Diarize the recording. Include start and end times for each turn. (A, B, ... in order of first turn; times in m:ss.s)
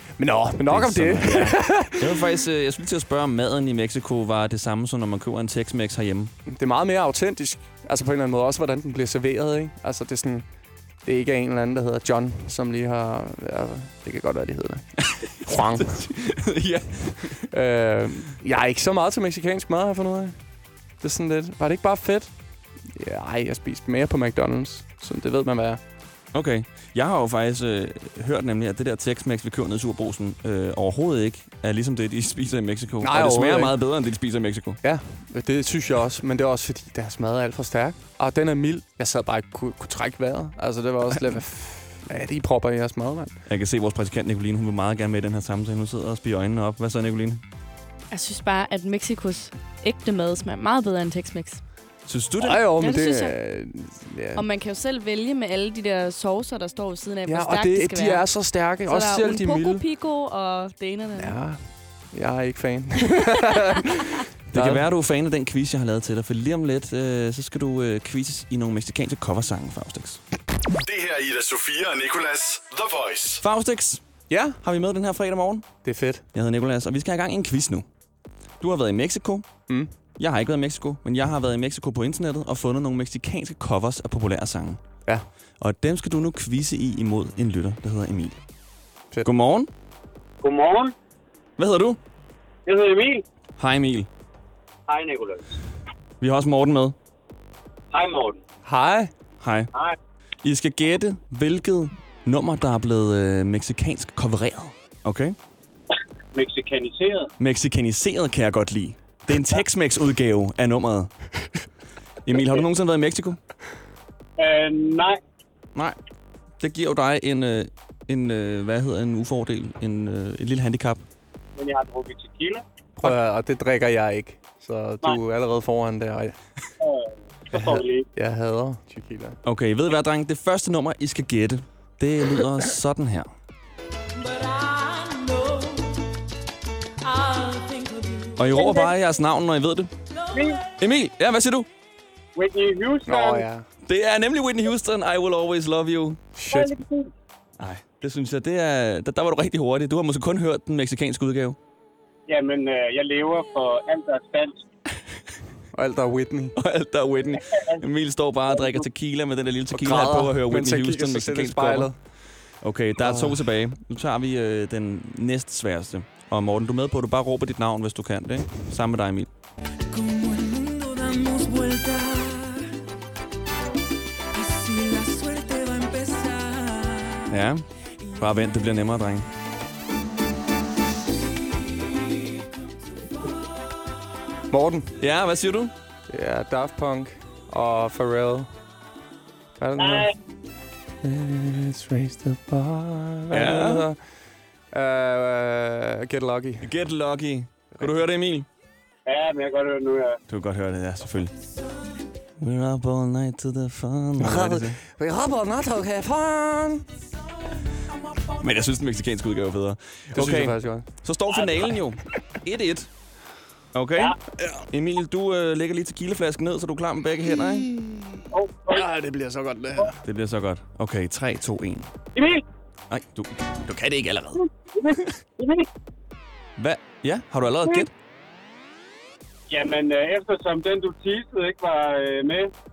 0:00.2-0:02.2 A
0:00.7-0:06.3 B
0:06.4-0:10.4 A
0:11.0-0:14.9 A
0:15.2-0:17.4 B
0:15.4-0:16.1 A
0:17.3-0:20.4 A
0:21.0-0:22.3 A
0:22.9-0:25.8 A
0:26.3-0:34.8 B
0:33.0-0:33.8 A
0:34.8-0:43.4 A
0:43.5-0:47.4 B
0:48.1-0:51.6 C
0:52.0-0:52.7 B
0:52.4-0:54.4 A
0:52.8-0:53.4 C
0:54.3-0:58.3 C
0:57.2-0:59.8 A
0:58.8-1:01.4 C
1:01.1-1:04.8 A
1:04.5-1:10.2 B
1:10.8-1:13.4 D
1:13.4-1:14.0 B
1:14.3-1:14.6 A
1:14.6-1:15.7 B
1:15.8-1:16.2 A
1:16.3-1:17.8 B
1:18.6-1:19.5 B
1:19.7-1:19.9 A
1:20.2-1:24.8 B
1:25.6-1:28.4 B
1:29.2-1:29.7 B
1:30.4-1:30.9 E
1:31.6-1:32.0 B
1:32.6-1:33.2 E
1:33.6-1:34.1 B
1:34.9-1:35.4 E
1:36.2-1:37.0 B
1:37.9-1:38.4 E
1:38.6-1:39.1 A
1:39.4-1:39.7 B
1:40.4-1:45.4 B
1:46.3-1:47.3 E
1:47.4-1:51.1 B
1:52.2-1:53.4 B
1:54.4-1:55.2 E
1:56.6-2:01.0 B
2:01.6-2:02.6 E
2:03.0-2:06.3 A
2:06.8-2:08.1 E
2:07.5-2:09.4 A
2:09.4-2:13.3 B
2:14.1-2:16.0 F
2:17.0-2:19.0 F
2:18.4-2:19.9 B
2:20.1-2:20.6 F
2:20.3-2:20.6 E
2:20.8-2:21.7 B
2:22.3-2:23.4 E
2:23.1-2:23.6 A
2:23.8-2:26.2 B
2:26.3-2:26.8 A
2:26.5-2:27.1 E
2:27.6-2:31.6 B
2:32.3-2:34.6 E
2:35.7-2:36.6 A
2:36.6-2:41.9 B
2:39.7-2:42.0 A
2:42.6-2:49.3 B
2:43.0-2:43.4 A
2:49.9-2:52.7 F
2:54.3-2:57.4 F
2:57.3-2:57.7 B
2:58.2-2:59.3 B
2:58.2-2:58.6 F
3:04.5-3:04.9 A
3:05.0-3:05.7 B
3:06.1-3:08.5 A
3:09.6-3:10.1 A
3:09.8-3:10.1 E
3:11.0-3:14.0 A
3:13.3-3:13.9 B
3:14.7-3:16.7 A
3:16.6-3:18.5 B
3:19.0-3:20.2 E
3:20.3-3:21.3 B
3:22.4-3:24.8 B
3:24.2-3:26.9 A
3:28.4-3:32.9 B
3:30.1-3:30.9 A
3:33.7-3:34.2 B
3:34.7-3:37.7 B
3:37.4-3:40.0 A
3:38.3-3:38.8 E
3:40.0-3:41.9 B
3:42.1-3:42.4 E
3:42.9-3:44.4 B
3:44.4-3:45.7 E
3:46.6-3:47.9 B
3:49.5-3:52.5 E